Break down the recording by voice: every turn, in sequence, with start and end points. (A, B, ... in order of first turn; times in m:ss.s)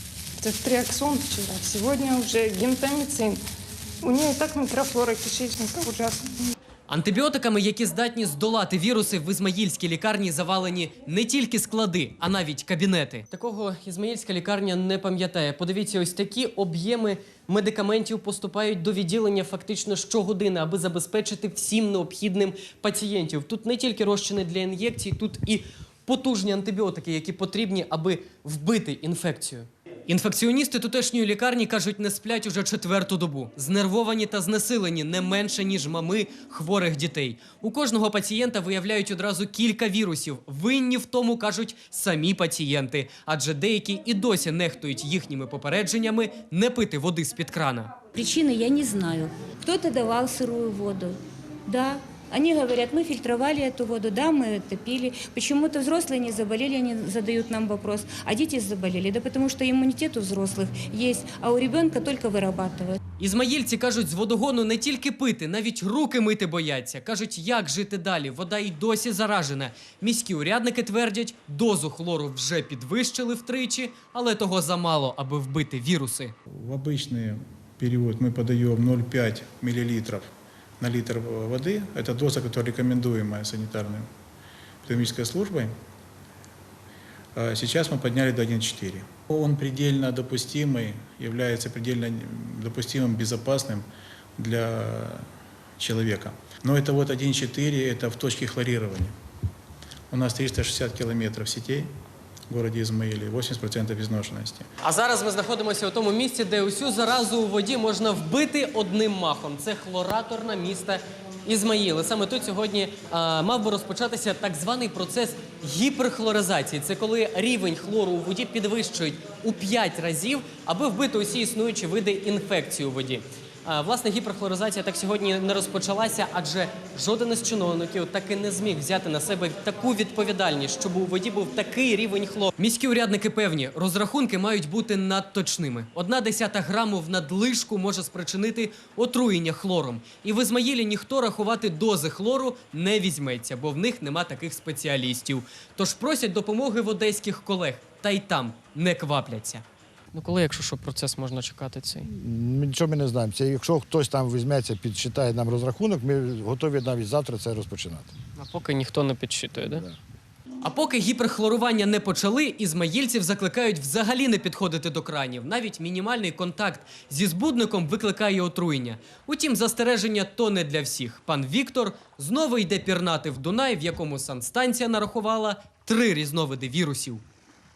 0:00.4-0:03.4 A
0:04.0-0:06.3 A
0:06.9-0:47.9 B
0:48.1-1:03.0 C
1:03.2-1:16.3 B
1:16.5-1:24.1 D
1:24.8-1:25.7 D
1:27.4-1:35.3 D
1:35.8-1:39.1 D
1:40.1-1:41.9 D
1:42.5-1:44.7 D
1:44.8-2:32.1 B
2:32.1-2:38.1 E
2:38.4-2:39.8 B
2:40.6-2:57.2 B